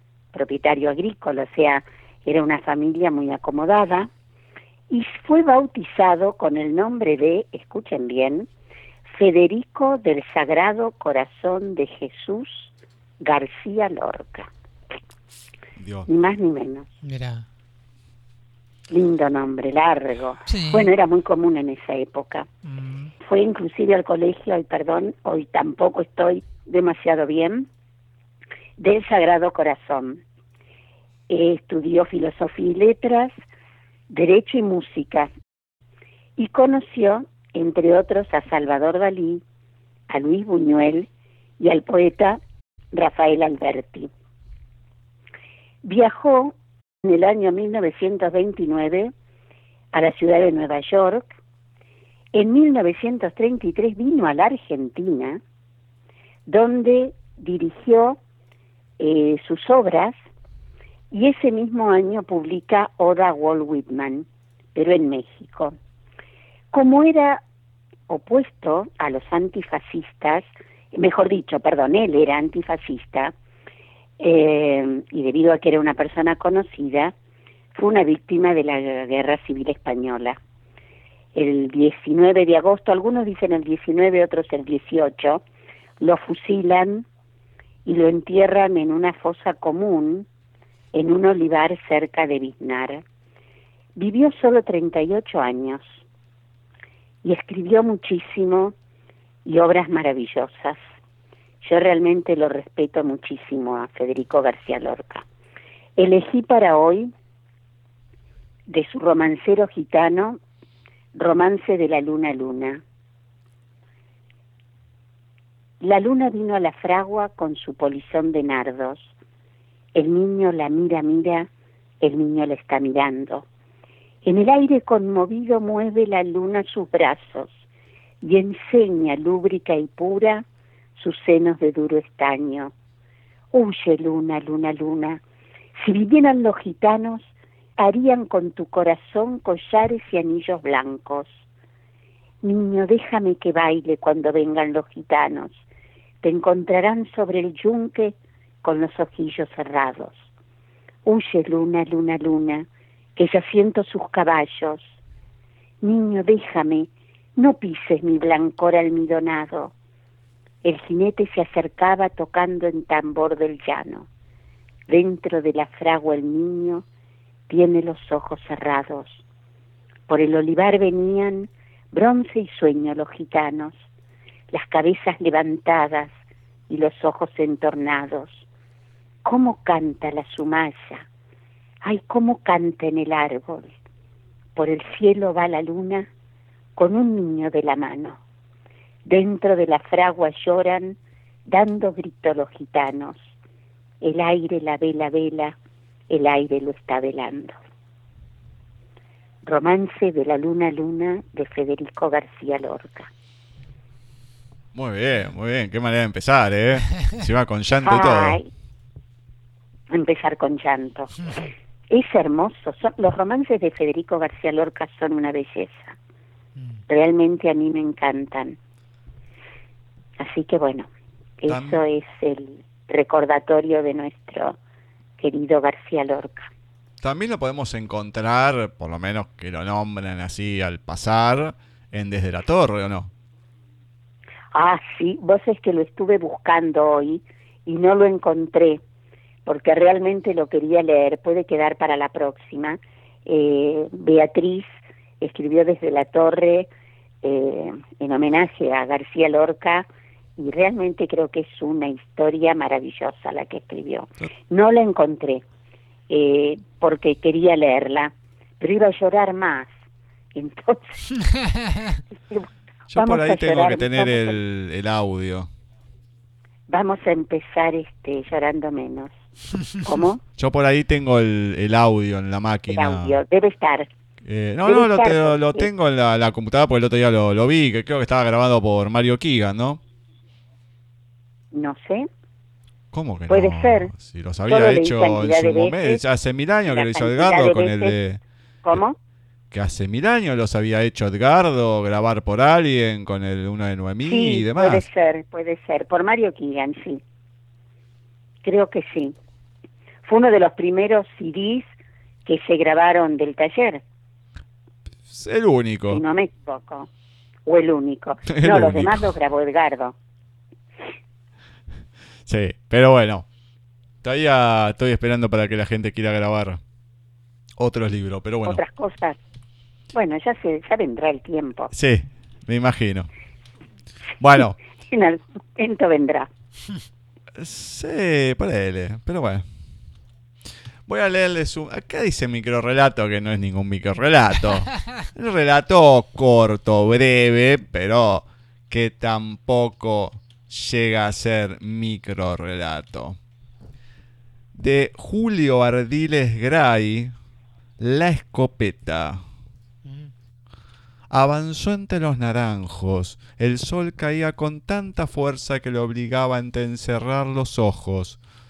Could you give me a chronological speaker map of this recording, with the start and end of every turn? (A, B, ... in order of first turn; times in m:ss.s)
0:00.3-0:04.1 A
0:04.9-0:08.5 A
0:09.1-0:12.7 A
0:13.2-0:14.5 A
0:15.8-0:16.1 B
0:16.1-0:16.9 A
0:17.0-0:17.5 C
0:18.9-0:22.5 A
0:20.5-0:20.9 C
0:22.6-0:23.1 C
0:23.2-0:27.7 A
0:28.8-0:30.2 A
0:31.3-0:33.3 A
0:34.1-0:35.3 A
0:36.4-0:39.4 A
0:40.1-0:41.1 A
0:41.6-0:42.4 A
0:42.9-0:44.1 A
0:45.8-0:49.1 A
0:49.9-0:51.3 A
0:52.3-0:55.4 A
0:56.5-0:58.2 A
0:59.0-1:00.2 A
1:01.1-1:05.8 A
1:06.7-1:07.4 A
1:08.1-1:13.3 A
1:14.2-1:17.1 A
1:17.8-1:20.4 A
1:21.4-1:25.4 A
1:26.0-1:27.0 A
1:27.8-1:30.3 A
1:30.9-1:33.0 A
1:34.0-1:35.9 A
1:37.2-1:38.8 A
1:39.4-1:40.8 A
1:41.6-1:45.2 A
1:46.0-1:47.1 A
1:48.7-1:50.4 A
1:51.1-1:52.8 A
1:55.8-1:59.1 A
2:00.0-2:01.5 A
2:02.0-2:03.5 A
2:04.2-2:07.6 A
2:08.2-2:10.4 A
2:11.0-2:12.7 A
2:13.5-2:15.2 A
2:15.8-2:21.3 A
2:22.4-2:25.6 A
2:26.2-2:30.2 A
2:31.0-2:34.9 A
2:35.8-2:39.7 A
2:40.6-2:44.1 A
2:44.9-2:46.8 A
2:47.5-2:49.2 A
2:50.1-2:53.8 A
2:54.5-2:56.2 A
2:56.7-2:58.4 A
2:59.2-3:01.1 A
3:01.8-3:03.7 A
3:04.6-3:06.1 A
3:06.8-3:08.2 A
3:09.0-3:13.2 A
3:14.0-3:15.6 A
3:16.1-3:17.6 A
3:19.4-3:23.1 A
3:24.7-3:28.4 B
3:27.8-3:28.5 A
3:29.9-3:31.3 A
3:31.2-3:31.5 C
3:31.9-3:36.0 A
3:36.6-3:36.8 C
3:36.9-3:38.6 A
3:40.2-3:40.9 A
3:41.4-3:44.6 A
3:41.5-3:41.8 B
3:45.2-3:46.5 A
3:47.0-3:53.1 B
3:54.5-3:58.8 A
3:59.5-4:06.7 A
4:07.2-4:09.9 A
4:10.4-4:15.4 A
4:16.1-4:19.7 A
4:20.3-4:21.2 A
4:21.2-4:22.0 C
4:22.3-4:24.4 A
4:22.9-4:25.5 B
4:26.7-4:29.1 A
4:29.8-4:30.2 A
4:30.4-4:33.2 B
4:32.7-4:33.9 A
4:34.2-4:39.8 B
4:34.6-4:35.7 A
4:41.5-4:42.1 A
4:42.9-4:48.2 B
4:43.3-4:43.9 A
4:44.5-4:46.0 A
4:46.7-4:48.0 A
4:48.6-4:49.0 A
4:49.5-4:54.9 B
4:54.1-4:57.0 A
4:58.4-4:59.2 A
5:00.0-5:01.7 A
5:02.2-5:03.8 A
5:05.1-5:06.0 B
5:05.9-5:06.9 A
5:07.5-5:10.0 A
5:08.3-5:09.1 B
5:12.3-5:13.3 B
5:14.0-5:16.6 B
5:17.6-5:18.6 B
5:18.4-5:19.2 A
5:19.9-5:21.7 A
5:21.7-5:23.1 B
5:24.2-5:24.6 B
5:24.9-5:26.3 A
5:27.4-5:29.4 B
5:30.9-5:43.2 B
5:44.6-5:47.1 B
5:47.8-5:49.2 B
5:49.8-5:50.1 C
5:51.1-5:58.2 B